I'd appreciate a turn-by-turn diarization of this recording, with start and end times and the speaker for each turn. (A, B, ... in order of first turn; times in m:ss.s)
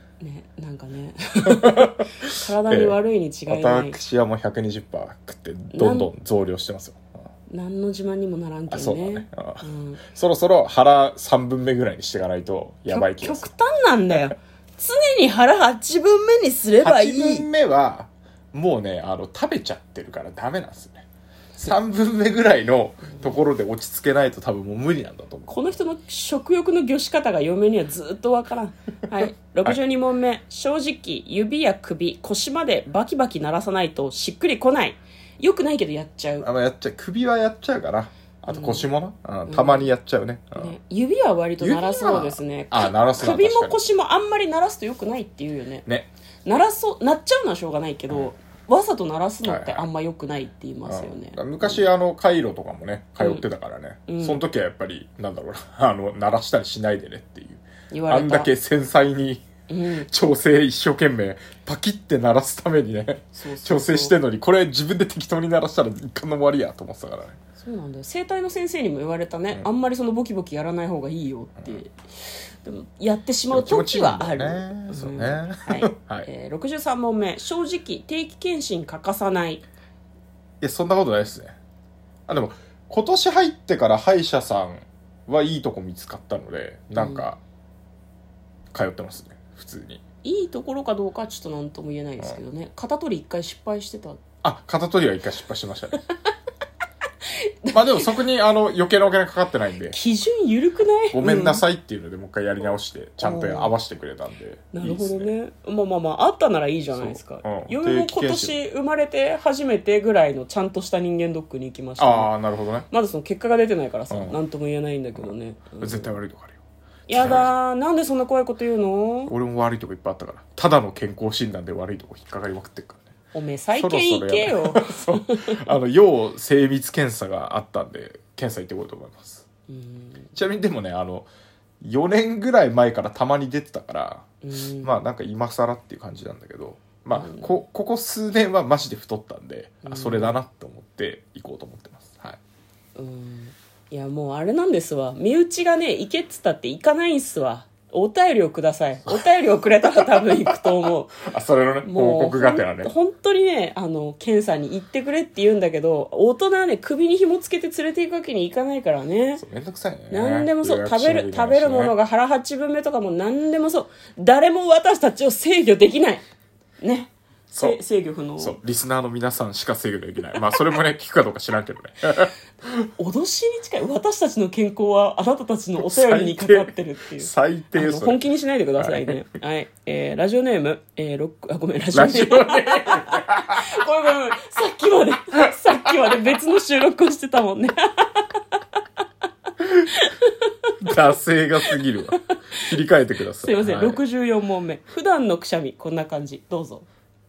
0:00.2-0:04.0 A
0:01.6-0:03.0 B
0:03.5-0:07.2 B
0:05.7-0:06.1 A
0:07.5-0:10.0 A
0:08.7-0:13.5 B
0:12.9-0:17.5 A
0:16.8-0:21.0 B
0:21.6-0:25.7 B
0:25.5-0:36.5 A
0:36.4-0:40.8 B
0:38.5-0:38.8 A
0:39.5-0:39.9 A
0:40.6-0:45.9 A
0:41.6-0:43.8 B
0:46.4-0:51.8 A
0:49.4-0:49.9 B
0:50.9-0:59.5 B
0:54.1-0:54.4 A
0:57.9-0:58.5 A
0:59.7-1:00.1 A
1:00.1-1:07.4 B
1:03.4-1:04.2 A
1:07.6-1:11.9 A
1:12.6-1:19.6 A
1:13.5-1:16.3 B
1:20.6-1:21.6 B
1:22.3-1:27.4 B
1:27.0-1:27.3 A
1:28.7-1:30.0 B
1:30.2-1:34.2 A
1:34.4-1:36.0 B
1:37.3-1:38.2 A
1:37.7-1:40.0 B
1:39.9-1:41.6 A
1:41.1-1:45.3 B
1:43.2-1:43.7 A
1:44.7-1:52.3 A
1:46.9-1:48.6 B
1:52.0-1:52.9 B
1:52.9-1:56.2 A
1:54.1-1:54.4 B
1:55.2-1:56.6 B
1:57.1-1:59.3 A
1:57.1-1:57.5 B
1:59.3-2:03.1 B
2:03.3-2:05.6 A
2:03.8-2:09.5 B
2:09.7-2:10.3 A
2:10.3-2:11.3 B
2:11.8-2:14.3 B
2:14.4-2:15.0 A
2:14.8-2:22.4 B
2:17.1-2:17.6 A
2:19.8-2:20.4 A
2:23.0-2:31.2 A
2:29.9-2:32.9 B
2:31.8-2:39.4 A
2:39.4-2:41.9 B
2:40.1-2:46.2 A
2:46.8-2:48.6 A
2:47.5-2:47.8 B
2:48.4-2:52.8 B
2:53.0-3:08.8 A
2:55.8-2:58.2 B
2:58.8-2:59.2 B
3:01.9-3:03.8 B
3:09.6-3:09.9 B
3:09.9-3:10.7 A
3:10.8-3:14.0 B
3:13.4-3:16.9 A